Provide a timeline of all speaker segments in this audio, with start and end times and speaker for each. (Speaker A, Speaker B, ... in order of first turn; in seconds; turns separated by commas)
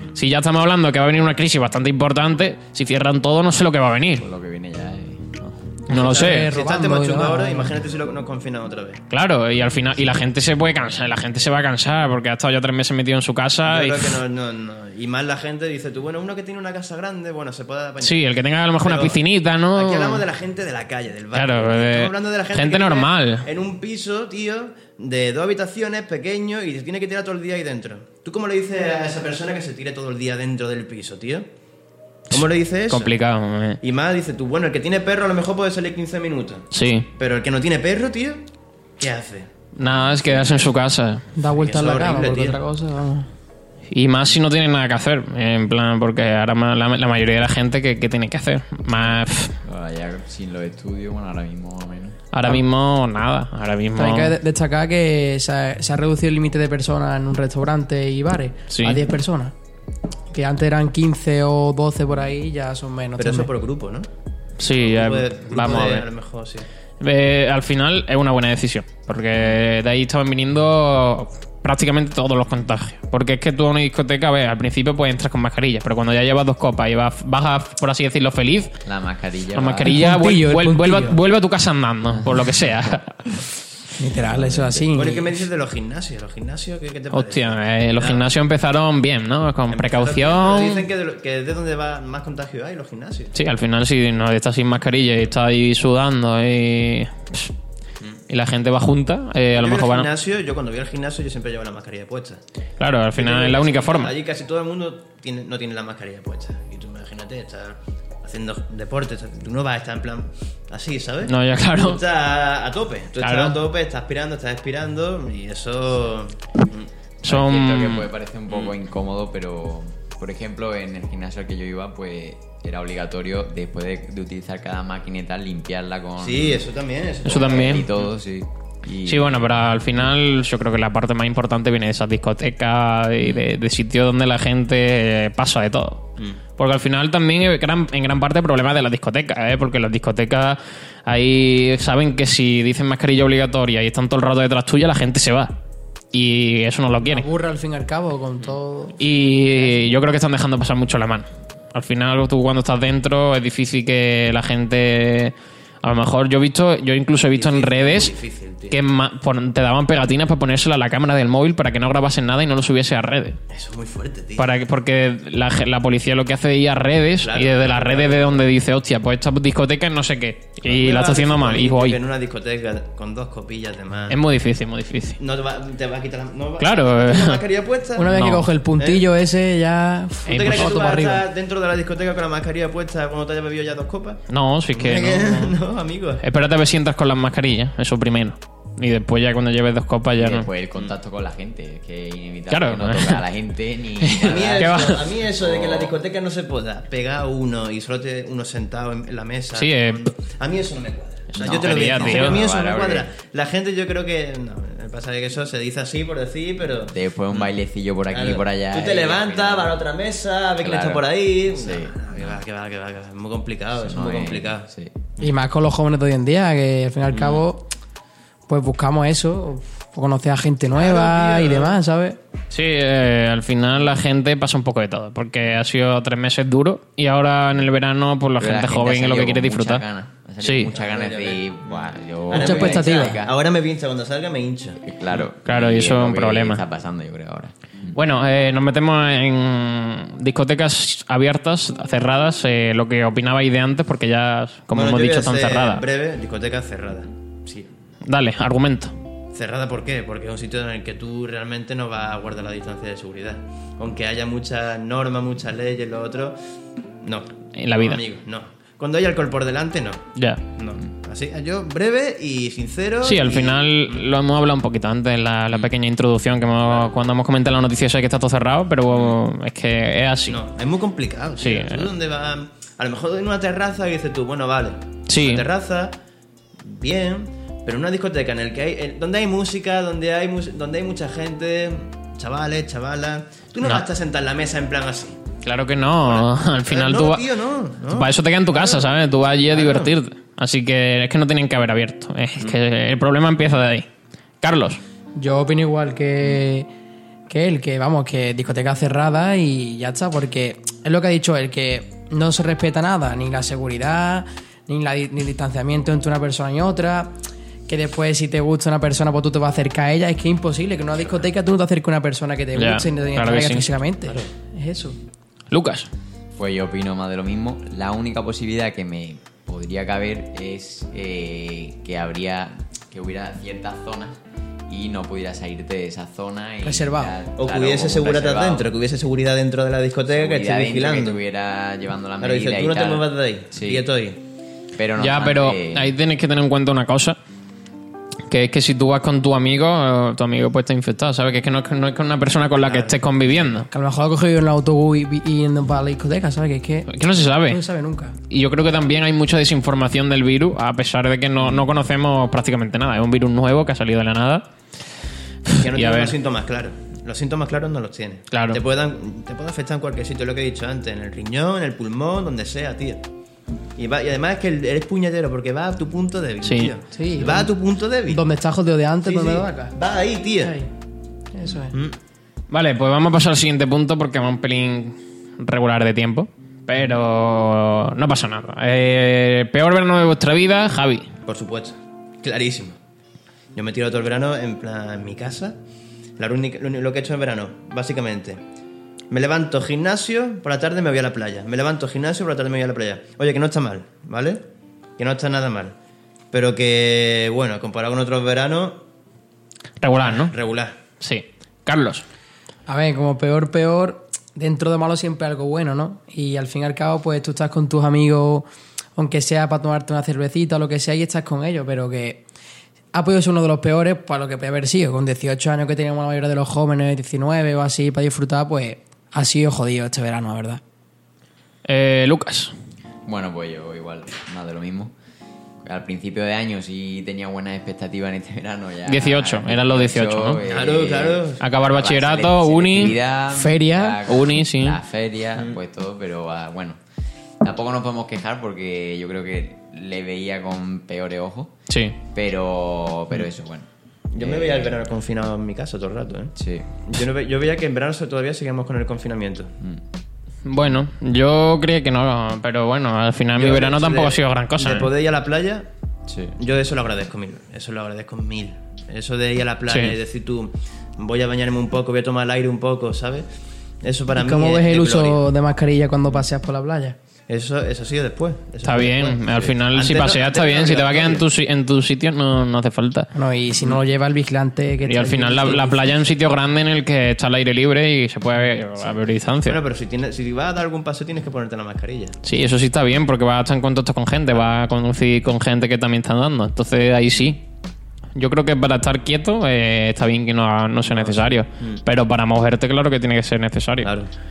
Speaker A: 0.1-4.2, Speaker B: 4.2-5.8, Speaker A: 5.9-6.5, Speaker C: 5.9-9.0, Speaker D: 6.0-7.7, Speaker A: 9.1-14.2, Speaker C: 13.7-18.2, Speaker A: 18.0-20.2, Speaker C: 18.8-19.2, Speaker C: 19.7-31.5, Speaker A: 21.3-23.4, Speaker C: 32.3-33.1, Speaker A: 32.3-33.8, Speaker C: 33.8-38.4, Speaker A: 36.7-37.1, Speaker C: 39.0-39.5, Speaker A: 39.8-41.2, Speaker C: 40.2-40.7, Speaker D: 41.3-43.3, Speaker C: 41.5-42.6, Speaker A: 43.9-49.5, Speaker B: 48.9-52.2, Speaker A: 52.3-54.3, Speaker D: 54.0-59.5, Speaker A: 58.7-59.0, Speaker D: 60.3-63.5, Speaker C: 63.2-64.1, Speaker A: 64.6-66.1, Speaker C: 64.8-66.7, Speaker A: 67.0-78.7, Speaker B: 78.8-80.0, Speaker A: 79.5-83.2, Speaker D: 79.8-81.2, Speaker B: 82.2-83.0, Speaker D: 84.0-85.4, Speaker B: 84.3-84.9, Speaker C: 84.9-88.2, Speaker A: 87.1-90.8, Speaker C: 89.7-93.3, Speaker A: 93.3-97.5, Speaker A: 98.3-100.1, Speaker C: 99.5-102.4, Speaker A: 102.8-104.1, Speaker C: 103.2-116.9, Speaker A: 111.2-112.0, Speaker A: 113.2-113.6, Speaker A: 117.2-118.1, Speaker B: 117.2-126.7, Speaker C: 126.2-128.1, Speaker B: 127.2-129.8, Speaker A: 127.2-127.8, Speaker A: 129.1-136.0, Speaker B: 133.2-133.4, Speaker A: 136.6-145.5, Speaker A: 146.1-147.3, Speaker D: 147.0-149.0, Speaker A: 149.0-158.1, Speaker C: 157.3-158.8, Speaker A: 158.7-163.4, Speaker C: 163.5-164.4, Speaker A: 164.4-172.0, Speaker C: 167.2-168.4, Speaker C: 170.6-174.2, Speaker A: 174.1-175.2, Speaker C: 175.2-178.1, Speaker A: 176.6-177.4, Speaker D: 178.0-181.2, Speaker A: 178.1-178.4, Speaker C: 178.8-179.0, Speaker A: 180.3-180.8, Speaker C: 180.3-186.2, Speaker A: 184.3-185.6, Speaker A: 186.2-190.5, Speaker B: 190.2-195.9, Speaker A: 192.5-193.2, Speaker A: 194.0-195.0, Speaker C: 194.2-207.5, Speaker A: 199.5-200.0, Speaker B: 201.3-203.1, Speaker A: 201.3-202.4, Speaker B: 206.9-209.8, Speaker C: 208.1-214.7, Speaker B: 210.6-212.4, Speaker B: 213.7-214.9, Speaker D: 215.2-217.7, Speaker C: 217.1-217.4, Speaker D: 218.5-222.2, Speaker C: 220.7-221.8, Speaker A: 222.5-229.8, Speaker B: 228.4-233.3, Speaker A: 230.4-230.7, Speaker C: 230.7-234.8, Speaker D: 232.3-233.2, Speaker B: 234.8-238.0, Speaker A: 235.4-236.6, Speaker A: 237.9-245.8, Speaker C: 244.7-247.7, Speaker A: 248.0-248.9, Speaker C: 249.3-256.4, Speaker C: 257.0-263.7, Speaker A: 257.6-258.0, Speaker A: 260.1-260.4, Speaker A: 263.0-270.4, Speaker C: 270.3-276.0, Speaker A: 271.4-271.9, Speaker A: 275.1-275.5, Speaker C: 276.6-285.2, Speaker A: 285.4-287.3, Speaker C: 286.1-288.9, Speaker A: 287.9-293.9, Speaker C: 289.5-289.9, Speaker A: 294.4-294.8, Speaker D: 295.1-296.7, Speaker D: 297.3-307.1, Speaker D: 307.7-315.0, Speaker A: 312.6-313.6, Speaker A: 315.5-315.9, Speaker B: 316.3-328.7, Speaker D: 326.6-327.1, Speaker C: 327.4-331.2, Speaker B: 330.1-333.9, Speaker C: 332.2-334.2, Speaker B: 334.7-335.9, Speaker A: 335.0-337.2, Speaker A: 338.3-343.7, Speaker C: 342.6-342.9, Speaker D: 343.7-348.1, Speaker A: 346.9-347.6, Speaker A: 348.3-354.4, Speaker A: 355.5-356.1, Speaker C: 355.5-363.0, Speaker A: 358.3-358.6, Speaker C: 363.8-368.2, Speaker A: 366.4-366.7, Speaker D: 366.9-369.7, Speaker C: 369.0-370.6, Speaker D: 370.4-370.7, Speaker D: 371.3-371.7, Speaker A: 372.5-381.1, Speaker C: 381.2-382.8, Speaker C: 383.5-385.6, Speaker C: 386.2-388.4, Speaker C: 389.1-394.4, Speaker C: 395.0-395.8, Speaker C: 396.3-398.8, Speaker A: 399.8-400.3, Speaker C: 400.0-400.8, Speaker A: 401.0-402.0, Speaker D: 402.7-412.2, Speaker D: 412.9-420.6, Speaker A: 421.6-422.5, Speaker B: 423.0-424.9, Speaker B: 425.6-436.8, Speaker A: 428.9-430.4, Speaker C: 430.5-431.4, Speaker A: 431.4-433.0, Speaker D: 433.3-434.0, Speaker A: 434.1-434.8, Speaker B: 437.4-441.5, Speaker A: 441.7-441.9, Speaker B: 442.1-444.8, Speaker C: 444.1-446.3, Speaker B: 446.4-446.7, Speaker C: 446.9-449.5, Speaker A: 450.4-454.9, Speaker C: 453.3-455.7, Speaker B: 456.1-456.4, Speaker C: 456.4-463.3, Speaker A: 459.7-459.9, Speaker C: 463.8-465.2, Speaker D: 464.1-466.9, Speaker C: 467.3-471.2, Speaker A: 468.6-473.1, Speaker D: 473.1-476.0, Speaker A: 474.8-479.6, Speaker C: 479.4-482.2, Speaker A: 482.2-487.4, Speaker A: 488.1-493.9, Speaker C: 490.9-491.8, Speaker C: 493.8-494.1